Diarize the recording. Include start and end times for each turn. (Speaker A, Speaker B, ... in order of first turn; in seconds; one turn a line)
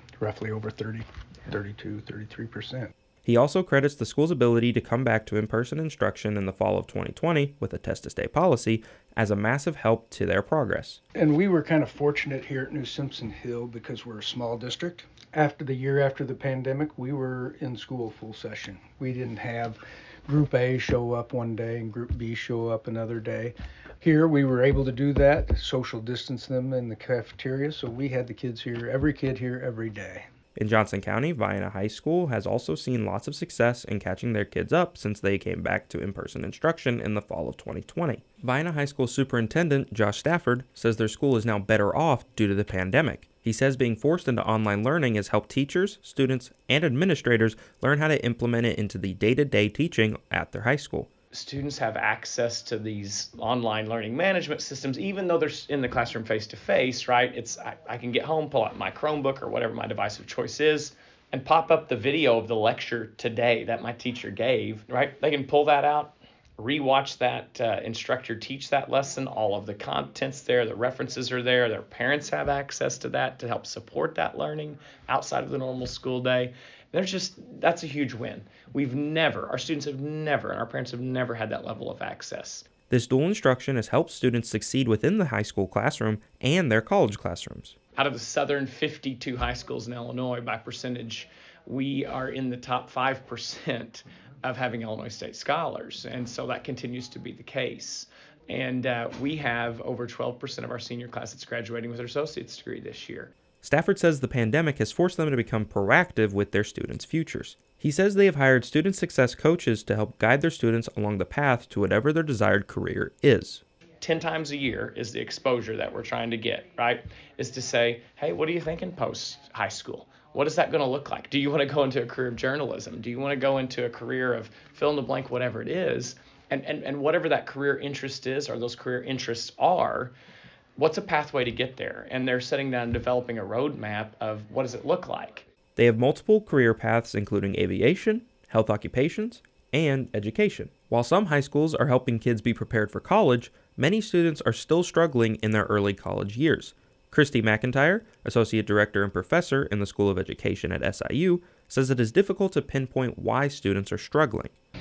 Speaker A: 0.2-2.9
Speaker B: 3.2-11.0
Speaker A: 11.1-30.2
Speaker B: 30.6-51.1
Speaker C: 51.3-82.7
Speaker B: 82.9-87.8
Speaker C: 88.0-103.3
Speaker B: 103.6-113.6
Speaker C: 114.0-130.1
Speaker C: 130.8-135.4
Speaker B: 135.8-154.5